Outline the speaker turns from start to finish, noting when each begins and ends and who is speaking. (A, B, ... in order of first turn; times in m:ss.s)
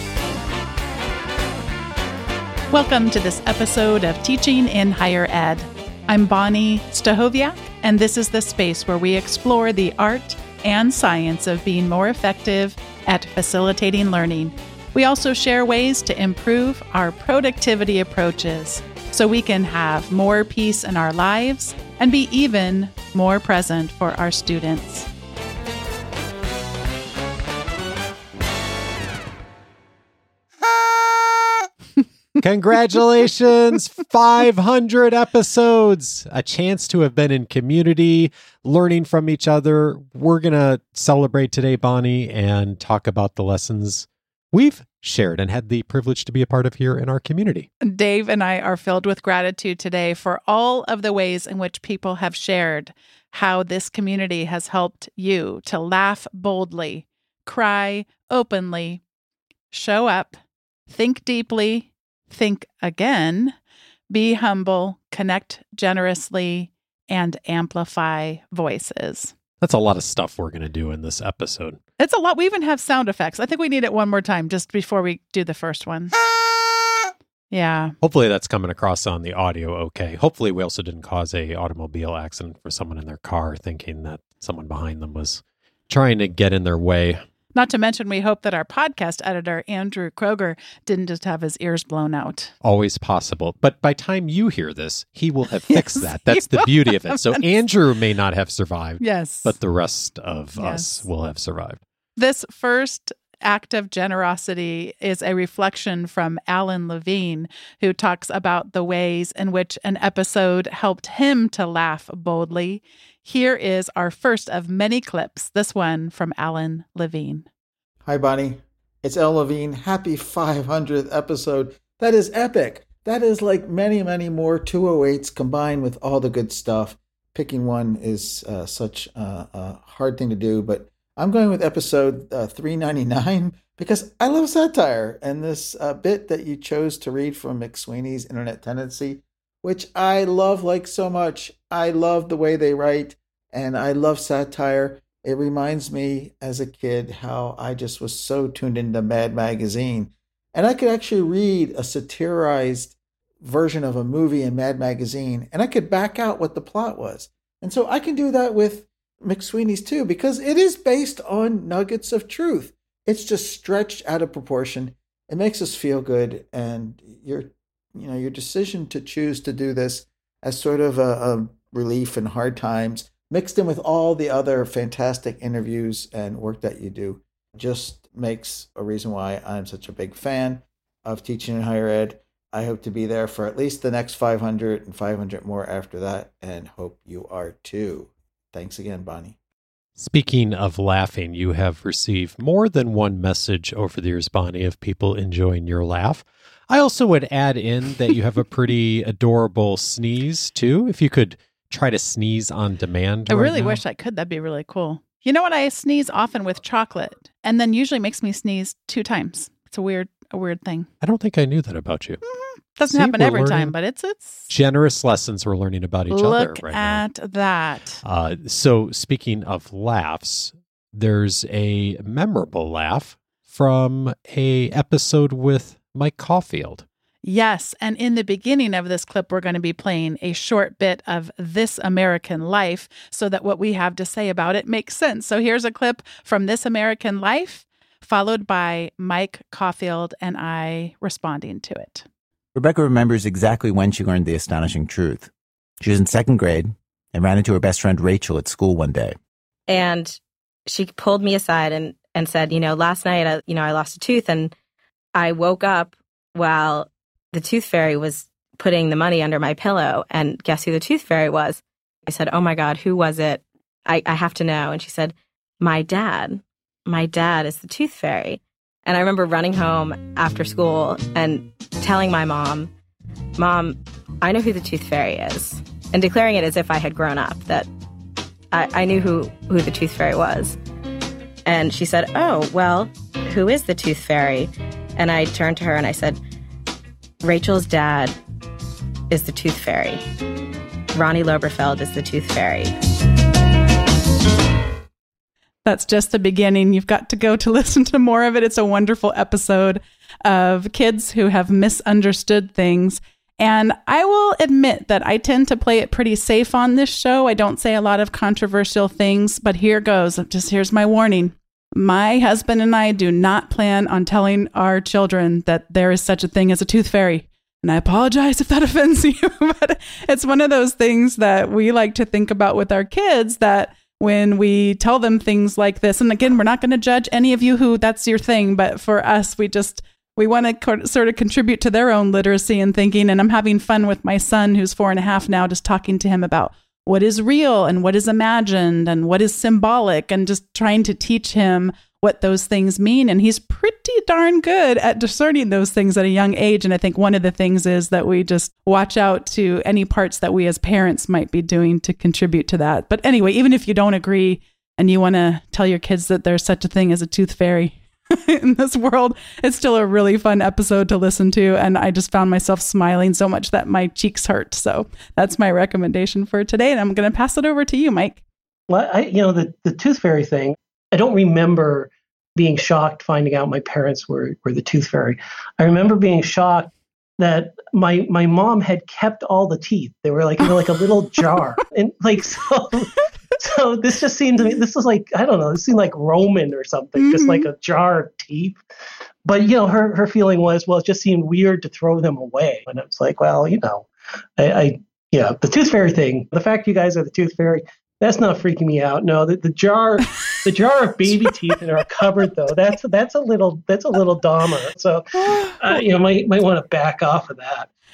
0:02.7-0:25.1 A
0:32.4-0:47.7 B
0:47.8-0:59.0 A
0:59.7-1:03.6 A
1:04.1-1:09.3 A
1:09.6-1:11.8 B
1:12.0-1:16.2 A
1:17.5-1:18.0 A
1:18.0-1:27.2 B
1:27.5-1:32.5 A
1:32.6-1:41.8 B
1:35.7-1:37.4 A
1:39.0-1:39.6 A
1:40.6-1:41.0 A
1:42.2-1:57.4 A
1:58.0-3:09.4 C
3:10.0-3:23.8 B
3:23.3-3:30.9 A
3:31.0-3:32.2 B
3:32.2-3:34.5 A
3:32.8-3:33.8 B
3:34.5-3:37.0 B
3:36.1-3:38.0 A
3:38.0-3:46.8 B
3:47.2-4:02.1 A
4:02.6-4:05.3 D
4:05.8-4:09.2 D
4:09.7-4:14.5 E
4:15.2-4:32.7 E
4:33.4-4:37.7 E
4:38.5-4:40.6 E
4:41.4-4:46.2 E
4:47.2-4:48.1 E
4:49.1-4:50.0 E
4:50.9-4:52.7 E
4:55.6-6:08.2 A
6:08.7-6:28.6 F
6:27.0-6:27.5 A
6:29.2-6:47.7 F
6:41.0-6:41.3 A
6:45.2-6:45.8 A